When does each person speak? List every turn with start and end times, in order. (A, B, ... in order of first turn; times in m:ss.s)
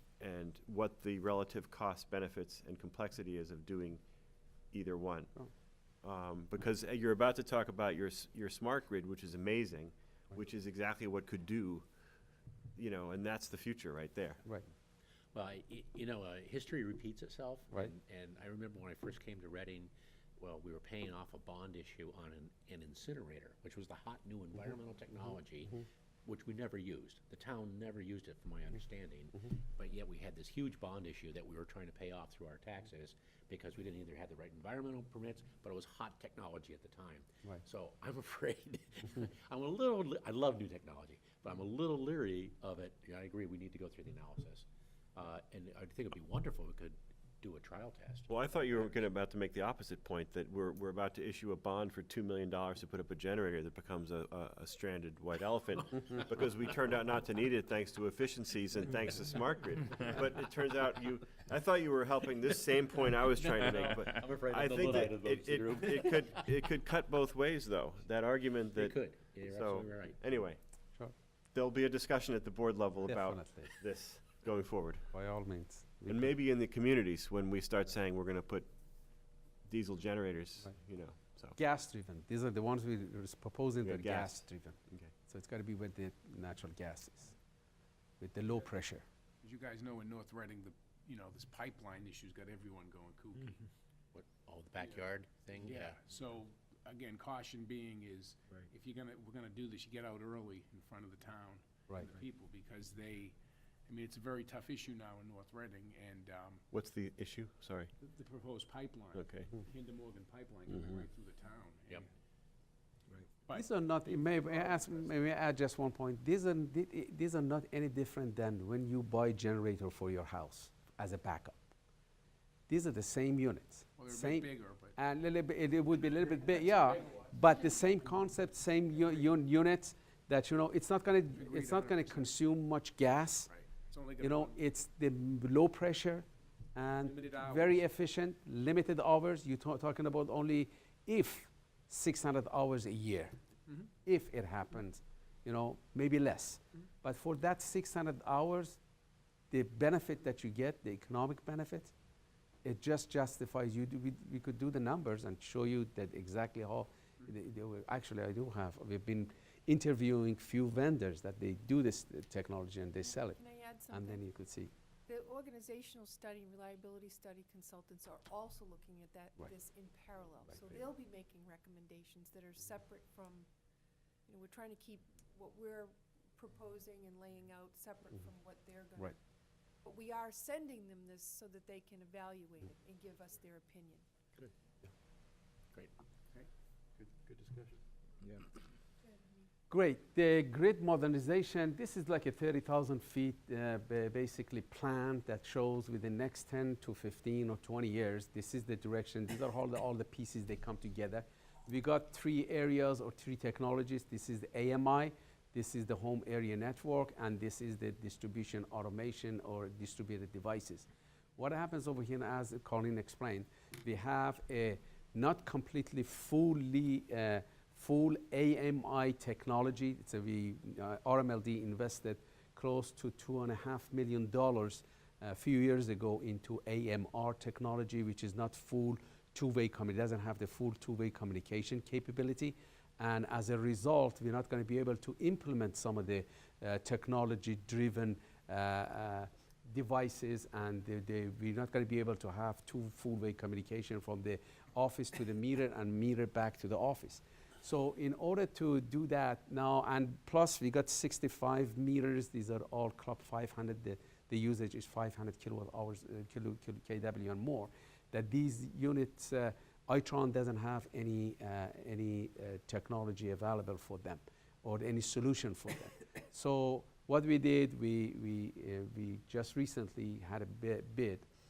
0:00.2-0:04.0 A
0:04.7-0:05.4 A
0:06.0-0:11.9 A
0:12.8-0:14.4 A
0:15.3-0:48.3 B
0:48.3-1:10.6 A
1:03.3-1:06.5 B
1:08.7-1:10.2 B
1:11.5-1:15.0 A
1:13.0-1:13.8 C
1:15.1-1:16.3 C
1:16.1-1:18.7 A
1:19.6-1:21.6 A
1:21.5-1:27.4 C
1:23.8-1:25.1 A
1:28.2-1:29.0 C
1:29.4-1:33.6 D
1:34.1-1:36.0 B
1:35.6-1:43.4 D
1:43.9-1:46.6 D
1:46.7-1:47.9 A
1:48.0-1:52.1 D
1:49.1-1:49.5 A
1:53.4-1:55.2 D
1:53.5-2:01.7 C
2:02.7-2:13.5 C
2:04.0-2:05.0 D
2:06.6-2:07.2 D
2:11.3-2:12.3 D
2:13.5-2:14.6 D
2:14.2-2:23.4 C
2:17.1-2:17.8 D
2:24.0-2:28.8 C
2:29.5-2:31.9 C
2:32.6-2:44.7 C
2:43.0-2:44.2 E
2:45.1-2:53.5 E
2:54.2-2:59.1 E
2:59.8-3:04.0 E
3:09.0-3:09.4 E
3:09.7-4:31.2 C